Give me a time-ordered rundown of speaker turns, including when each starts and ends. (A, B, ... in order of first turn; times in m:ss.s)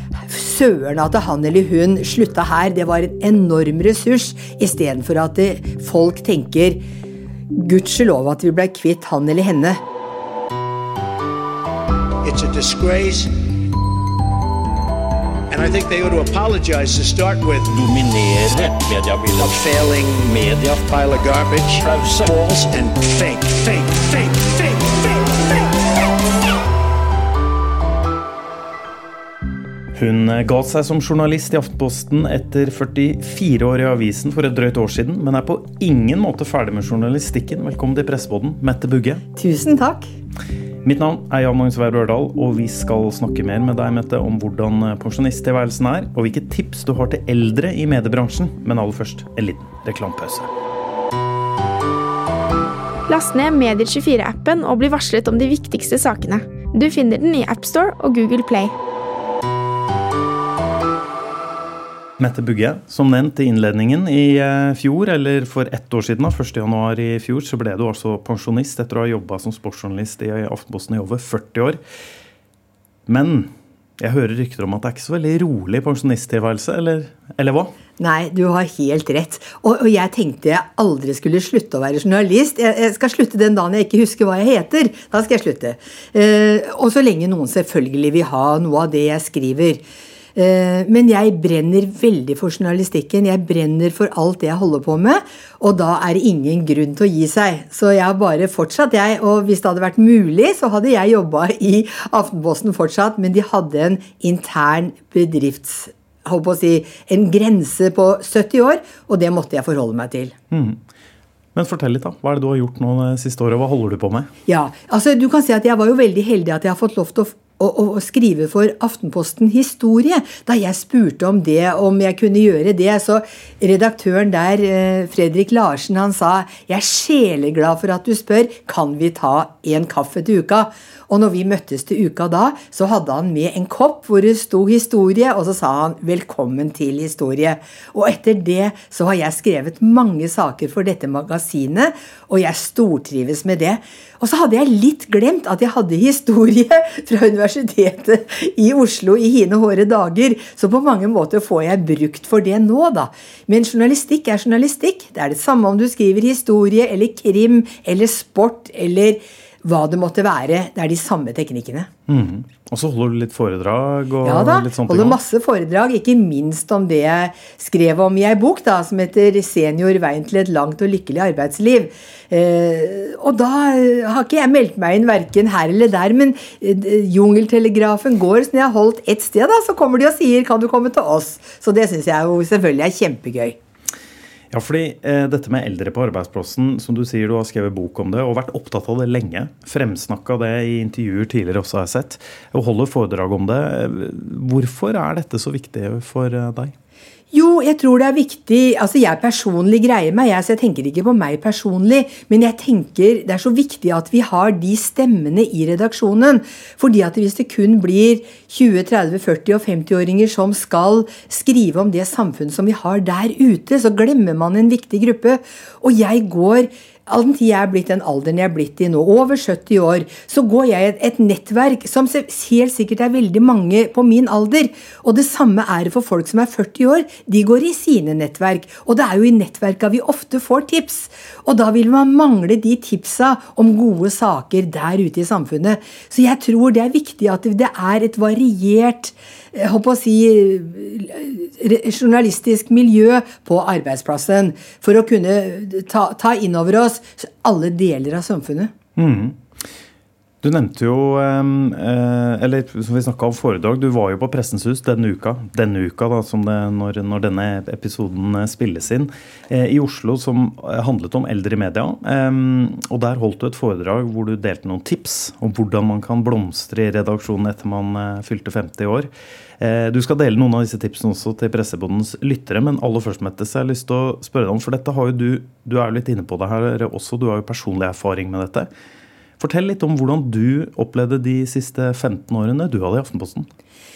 0:00.2-0:06.8 A
0:07.5-0:09.8 A
0:12.2-0:13.4 B
0:15.5-0:17.8 B
0:17.7-0:19.6 C
0:19.4-0:26.0 B
0:20.4-0:20.7 C
0:21.9-0:22.3 C
0:29.9-0:39.2 D
0:39.4-0:40.1 A
0:40.8-0:50.5 D
0:53.1-0:58.7 E
1:02.2-1:11.8 D
1:13.1-1:17.7 D
1:18.0-1:29.8 A
1:30.3-1:50.3 A
1:50.5-1:50.8 D
1:51.5-1:54.3 D
1:54.5-2:41.9 A
2:42.1-2:45.2 D
2:44.2-3:03.6 A
3:04.5-3:16.7 D
3:17.3-4:08.7 A
4:09.0-4:09.4 D
4:10.4-4:38.7 D
4:39.4-4:43.5 D